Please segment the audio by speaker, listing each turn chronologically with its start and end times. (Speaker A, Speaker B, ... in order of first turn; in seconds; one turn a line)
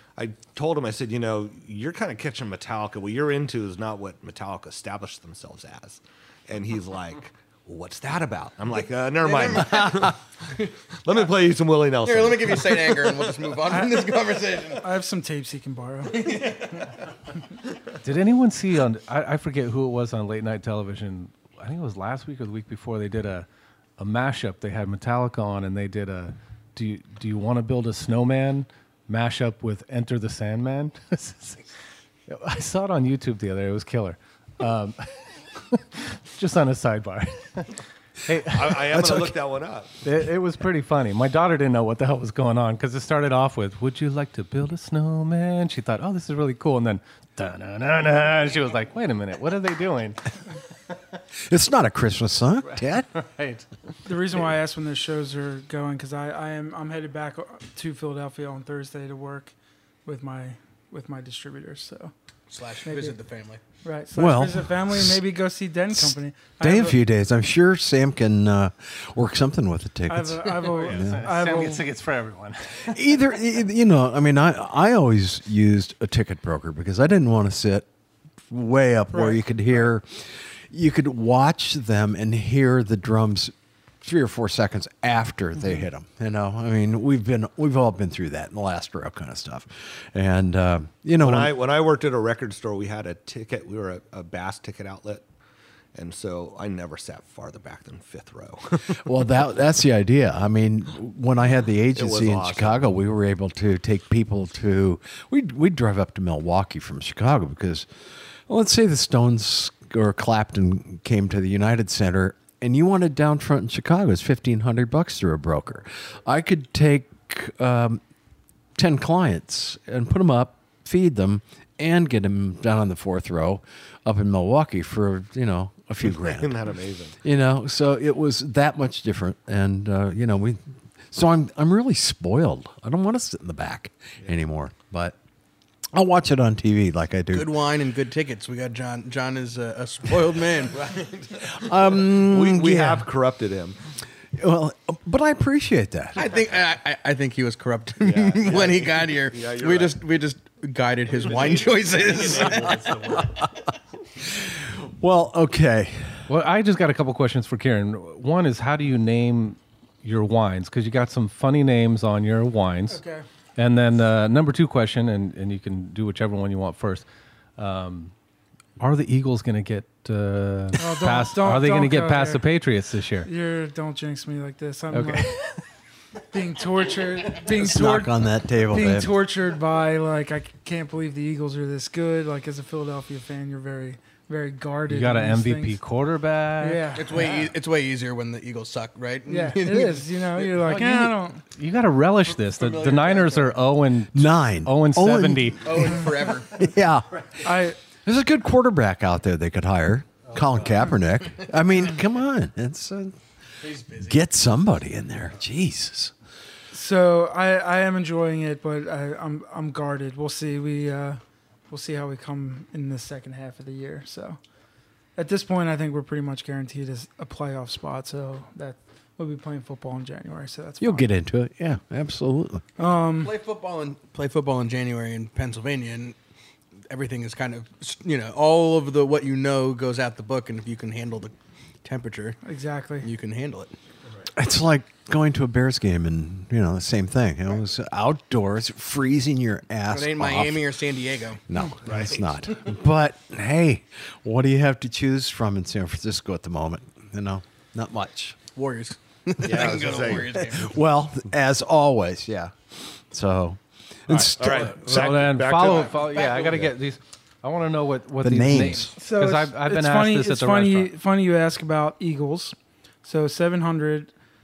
Speaker A: 0.2-10.2
Speaker B: 9.2-10.2
Speaker A: 11.0-13.3
Speaker B: 12.0-14.9
Speaker C: 14.7-16.4
Speaker B: 16.1-16.6
Speaker D: 18.0-23.4
Speaker D: 24.0-31.7
Speaker D: 32.3-39.3
Speaker A: 38.5-39.9
Speaker D: 40.0-50.6
Speaker E: 51.5-53.1
Speaker D: 52.7-53.6
Speaker C: 54.0-59.5
Speaker C: 60.0-62.1
Speaker B: 62.5-63.6
Speaker C: 62.8-63.2
Speaker C: 63.8-67.0
Speaker E: 64.1-65.2
Speaker E: 66.0-71.2
Speaker C: 70.1-71.8
Speaker D: 70.7-73.0
Speaker E: 72.8-77.8
Speaker E: 78.5-91.5
Speaker C: 79.1-79.4
Speaker A: 91.2-95.2
Speaker A: 95.9-99.0
Speaker E: 98.9-107.9
Speaker A: 101.9-102.9
Speaker E: 108.5-118.0
Speaker E: 118.8-126.7
Speaker A: 126.0-127.2
Speaker E: 127.2-135.2
Speaker E: 135.9-137.5
Speaker B: 137.3-140.9
Speaker A: 140.7-143.8
Speaker E: 141.5-143.1
Speaker E: 144.3-146.2
Speaker B: 146.2-152.8
Speaker A: 148.0-150.0
Speaker A: 151.3-151.6
Speaker D: 151.6-153.4
Speaker A: 152.2-152.5
Speaker E: 152.7-153.5
Speaker E: 154.3-156.3
Speaker D: 156.3-163.0
Speaker C: 162.9-163.2
Speaker D: 163.6-167.0
Speaker D: 167.6-168.1
Speaker D: 168.8-173.3
Speaker C: 170.8-172.4
Speaker C: 173.2-175.5
Speaker D: 174.9-175.6
Speaker C: 176.3-185.8
Speaker E: 177.5-179.1
Speaker D: 184.9-187.3
Speaker C: 186.6-187.2
Speaker B: 186.9-190.7
Speaker C: 189.3-191.4
Speaker D: 191.6-195.9
Speaker B: 192.3-193.6
Speaker E: 194.1-195.9
Speaker B: 195.6-196.5
Speaker E: 196.5-203.2
Speaker C: 197.4-197.8
Speaker B: 203.6-204.2
Speaker E: 204.1-206.1
Speaker C: 206.7-214.4
Speaker C: 215.2-221.1
Speaker E: 220.8-222.6
Speaker C: 222.8-223.3
Speaker B: 223.1-226.2
Speaker B: 226.9-232.4
Speaker C: 232.4-233.1
Speaker B: 233.0-233.7
Speaker E: 234.3-240.7
Speaker B: 239.9-241.4
Speaker E: 241.5-248.4
Speaker A: 241.8-242.2
Speaker B: 248.5-250.8
Speaker A: 249.4-250.4
Speaker E: 250.3-255.1
Speaker D: 254.1-260.9
Speaker A: 254.1-256.7
Speaker E: 258.2-258.9
Speaker C: 258.9-264.1